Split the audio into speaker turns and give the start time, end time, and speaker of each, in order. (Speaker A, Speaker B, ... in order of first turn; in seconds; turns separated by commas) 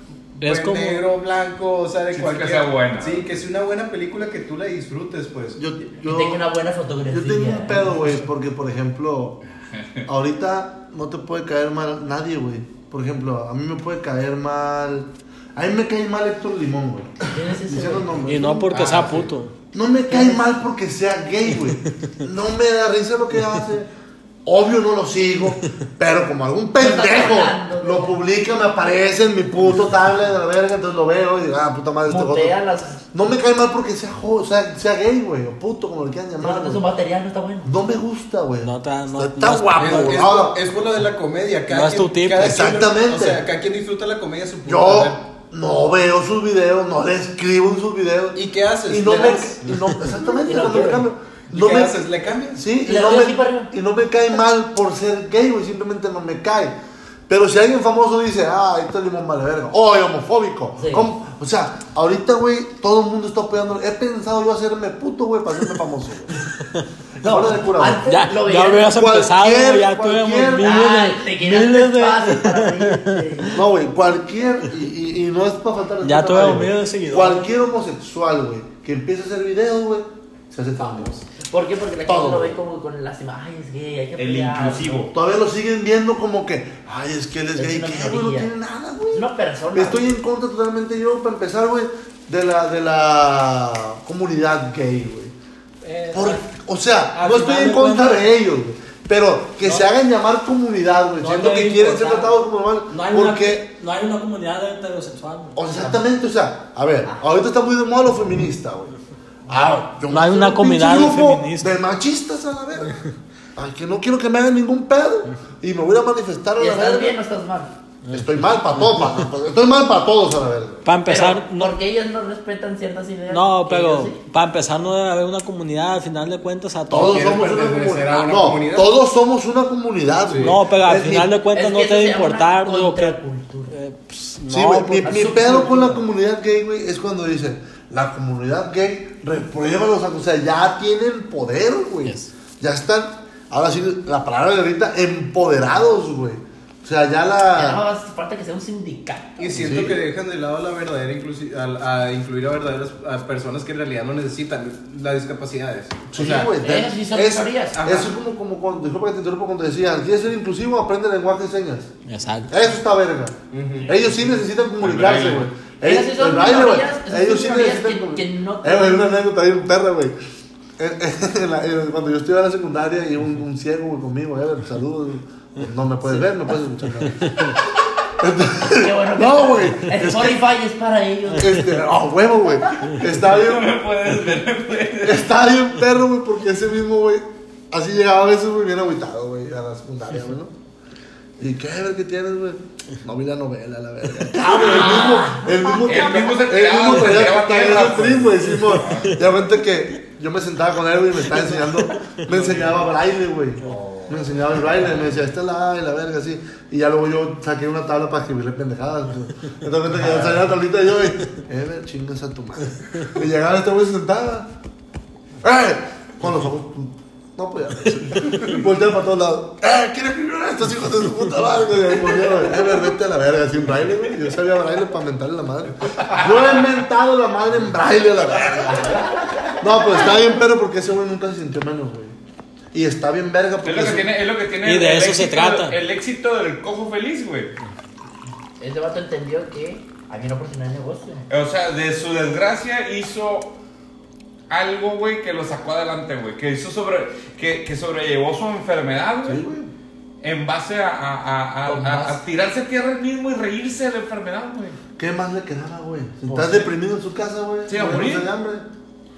Speaker A: 0.4-1.1, Speaker B: 0.4-5.6, Speaker C: 2.1-3.3, Speaker D: 5.6-6.5, Speaker E: 6.0-8.0, Speaker D: 7.1-9.4, Speaker C: 9.7-10.1, Speaker D: 10.1-23.9, Speaker E: 17.3-18.4, Speaker A: 18.2-19.5, Speaker E: 20.1-20.4, Speaker A: 21.6-22.1, Speaker D: 24.4-32.6, Speaker E: 26.8-28.2, Speaker E: 32.1-33.0, Speaker D: 33.1-36.8, Speaker E: 36.4-37.7, Speaker D: 37.6-40.6, Speaker A: 38.6-40.3, Speaker B: 39.8-45.2, Speaker A: 41.7-42.5, Speaker D: 42.4-43.4, Speaker D: 44.6-52.0, Speaker B: 48.4-49.7, Speaker E: 50.4-51.1, Speaker B: 51.5-52.6, Speaker D: 52.5-56.7, Speaker E: 52.8-53.8, Speaker D: 57.3-66.3, Speaker E: 60.8-61.1, Speaker D: 67.2-68.0, Speaker E: 67.2-69.0, Speaker A: 68.0-73.7, Speaker D: 68.9-70.8, Speaker E: 70.6-73.6, Speaker D: 73.5-81.1, Speaker A: 76.0-77.5, Speaker E: 81.5-85.0, Speaker D: 82.1-82.6, Speaker C: 84.2-85.1, Speaker D: 85.1-95.3, Speaker E: 87.6-88.5, Speaker E: 89.1-90.1, Speaker A: 95.8-96.5, Speaker D: 96.1-103.7, Speaker A: 97.1-98.2, Speaker A: 99.6-99.9, Speaker A: 101.2-102.3, Speaker A: 102.9-105.6, Speaker D: 105.6-109.0, Speaker D: 109.5-113.0, Speaker A: 110.1-111.7, Speaker D: 113.6-117.2, Speaker E: 116.6-117.7, Speaker D: 118.1-120.9, Speaker A: 120.8-121.8, Speaker E: 121.0-124.2, Speaker A: 123.3-127.2, Speaker D: 126.9-131.3, Speaker B: 126.9-128.9, Speaker B: 130.3-130.6, Speaker A: 130.4-133.2, Speaker E: 131.5-133.7, Speaker A: 133.7-135.2, Speaker D: 134.5-147.8, Speaker E: 135.0-136.0, Speaker A: 142.0-142.3, Speaker E: 147.6-149.7, Speaker B: 149.4-156.5, Speaker D: 149.6-150.0, Speaker D: 156.1-161.9, Speaker E: 156.6-157.8, Speaker B: 157.8-158.1, Speaker A: 162.1-162.6, Speaker D: 162.5-170.2, Speaker B: 163.5-164.0, Speaker C: 164.8-165.5, Speaker E: 165.8-169.2, Speaker D: 170.8-177.5, Speaker A: 177.2-177.6, Speaker D: 178.2-180.4, Speaker E: 178.7-181.7, Speaker D: 181.4-183.8, Speaker C: 182.7-185.3, Speaker D: 185.0-190.5, Speaker D: 191.4-214.5, Speaker E: 194.4-196.1, Speaker C: 195.8-199.2, Speaker A: 201.9-202.2, Speaker C: 202.3-202.6, Speaker E: 203.6-204.7, Speaker D: 215.4-229.0, Speaker E: 228.7-229.1, Speaker D: 229.6-232.2, Speaker D: 232.7-234.1, Speaker C: 233.6-237.6, Speaker A: 234.6-235.8, Speaker E: 238.6-241.3, Speaker C: 241.3-243.5, Speaker C: 244.5-249.4, Speaker D: 249.2-249.7, Speaker C: 250.2-254.8, Speaker E: 251.7-252.2, Speaker D: 255.0-258.7, Speaker C: 256.3-256.7, Speaker C: 257.7-258.3